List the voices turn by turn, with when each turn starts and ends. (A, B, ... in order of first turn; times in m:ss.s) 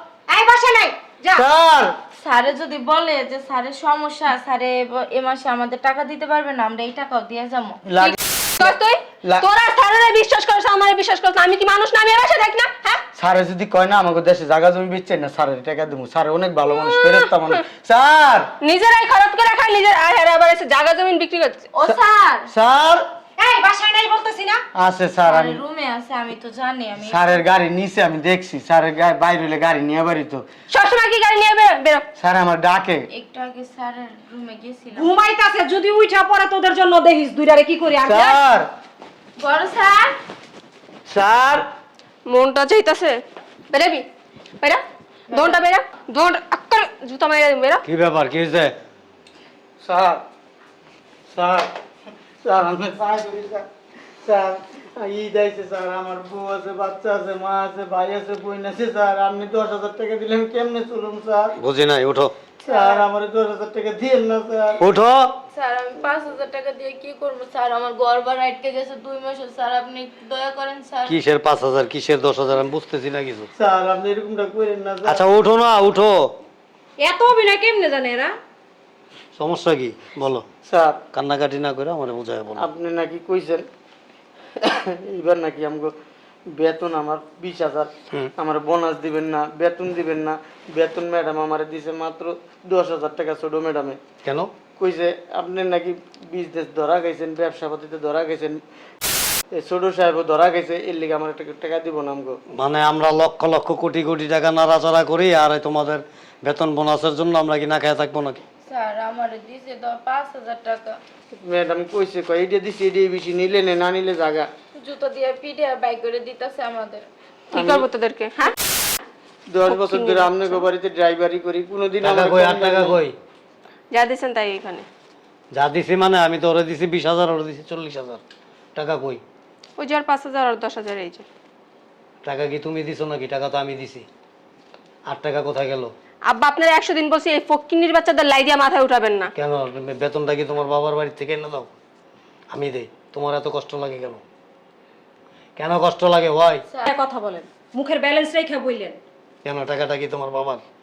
0:00.3-0:01.4 A
0:01.3-0:01.9 B
0:02.2-0:07.8 C
0:07.8-0:08.7 B
0:08.0-0:13.0 D
0:13.2-0:18.5 B
0:16.7-0:17.3 D
0:18.6-0:21.7 D
0:21.7-0:22.5 C
0:22.5-0:23.0 B
0:23.4-0:24.6 A
0:24.8-0:25.6 B
0:25.2-0:27.4 C
0:27.0-0:30.5 B
0:30.7-0:32.0 D
0:32.2-0:33.1 B
0:33.1-0:35.1 C
0:35.0-0:38.4 A
0:38.0-0:38.7 B
0:39.4-0:40.2 C
0:41.1-0:41.6 B
0:42.3-0:43.2 D
0:43.7-0:44.1 D
0:44.6-0:47.8 D
0:45.3-0:45.6 C
0:47.8-0:48.8 E
0:49.8-0:50.2 B
0:51.3-0:51.7 B
0:52.4-0:53.6 B
0:54.2-1:01.5 B
1:01.6-1:02.3 E
1:02.6-1:04.8 B
1:02.7-1:03.0 C
1:04.8-1:05.3 E
1:05.5-1:11.2 C
1:11.1-1:13.5 E
1:13.6-1:15.2 B
1:15.1-1:16.3 E
1:17.0-1:18.4 A
1:19.4-1:20.4 E
1:20.6-1:21.0 B
1:21.1-1:22.6 E
1:22.6-1:23.7 B
1:24.6-1:25.9 B
1:26.5-1:34.0 B
1:34.2-1:34.5 E
1:34.8-1:38.6 B
1:39.5-1:42.4 B
1:42.6-1:48.4 E
1:48.6-1:51.0 C
1:51.4-1:54.5 B
1:54.8-1:57.0 C
1:57.5-1:57.9 B
1:57.5-1:58.6 D
1:59.5-2:03.0 B
1:59.7-2:00.6 D
2:02.0-2:03.2 E
2:03.9-2:04.9 D
2:05.5-2:08.2 E
2:08.8-2:09.2 E
2:09.8-2:11.2 D
2:12.2-2:14.1 E
2:15.1-2:15.9 E
2:16.3-2:19.3 D
2:19.4-2:21.7 E
2:22.5-2:24.2 E
2:25.6-2:26.6 E
2:26.9-2:29.0 A
2:29.4-2:30.6 E